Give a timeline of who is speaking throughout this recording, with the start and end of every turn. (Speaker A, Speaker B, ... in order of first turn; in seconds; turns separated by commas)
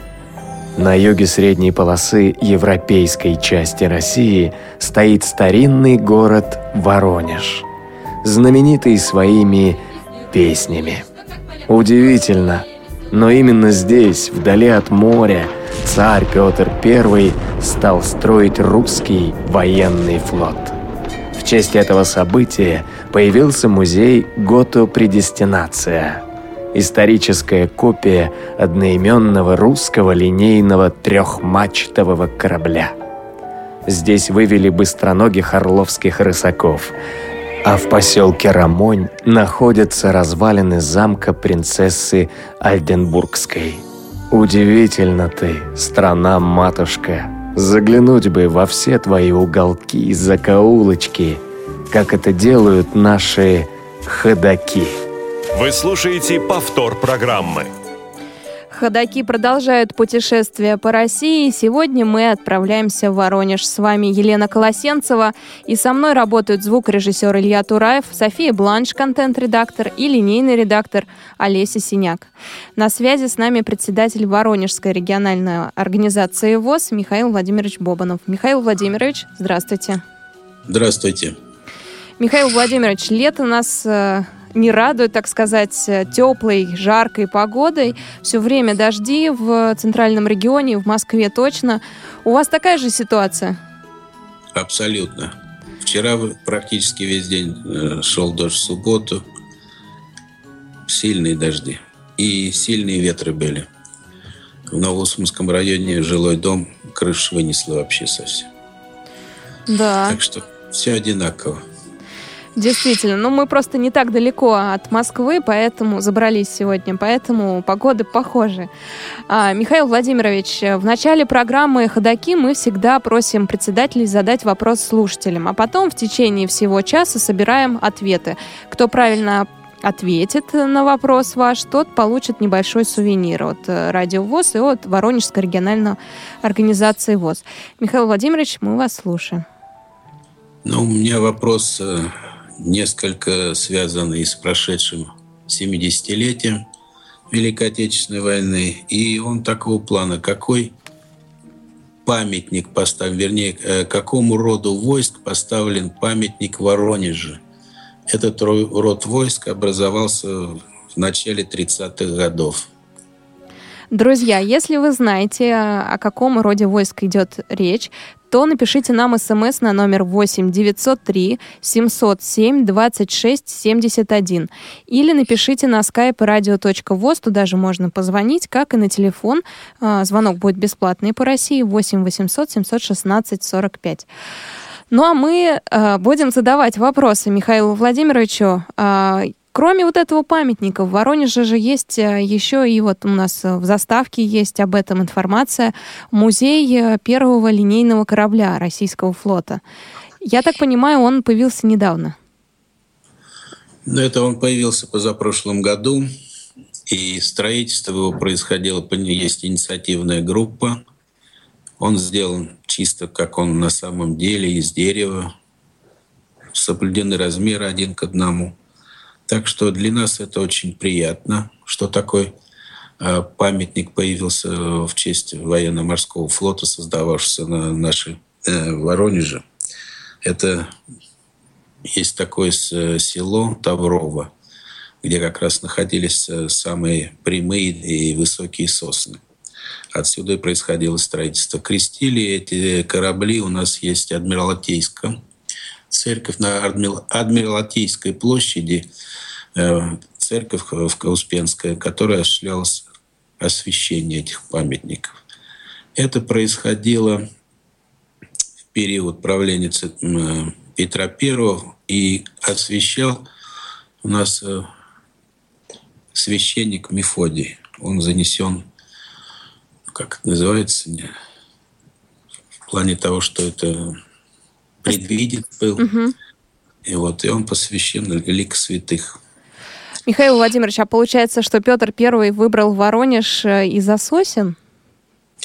Speaker A: 0.8-7.7, Speaker A: 8.2-9.8, Speaker A: 10.3-11.1, Speaker A: 11.7-20.8, Speaker A: 21.3-32.9, Speaker A: 33.9-36.9, Speaker A: 37.6-55.0, Speaker B: 55.5-57.7, Speaker C: 58.7-80.0, Speaker D: 80.7-81.4, Speaker C: 82.2-93.6, Speaker D: 94.5-99.2, Speaker D: 100.8-103.7, Speaker D: 104.7-108.5, Speaker C: 109.7-110.2, Speaker D: 110.1-111.6, Speaker C: 112.5-118.7, Speaker C: 119.3-139.4, Speaker D: 140.6-146.6, Speaker D: 147.3-150.8, Speaker D: 152.0-157.4, Speaker D: 158.1-162.7, Speaker C: 163.9-184.1, Speaker C: 184.9-199.6, Speaker C: 200.2-202.2, Speaker D: 203.8-206.1, Speaker D: 206.9-210.8, Speaker D: 211.8-215.3, Speaker D: 216.5-218.6, Speaker D: 219.3-222.3, Speaker D: 223.0-229.4, Speaker D: 230.2-230.7, Speaker D: 231.8-234.3, Speaker D: 235.0-239.2, Speaker D: 239.9-245.1, Speaker D: 245.9-248.9, Speaker D: 249.5-252.8, Speaker D: 253.4-255.1, Speaker D: 255.9-257.2, Speaker D: 258.7-263.2, Speaker D: 264.0-264.7, Speaker D: 266.1-268.7, Speaker D: 269.9-271.1, Speaker D: 272.7-273.9, Speaker D: 274.8-275.9, Speaker C: 275.8-276.1, Speaker D: 276.8-279.2, Speaker C: 280.1-284.6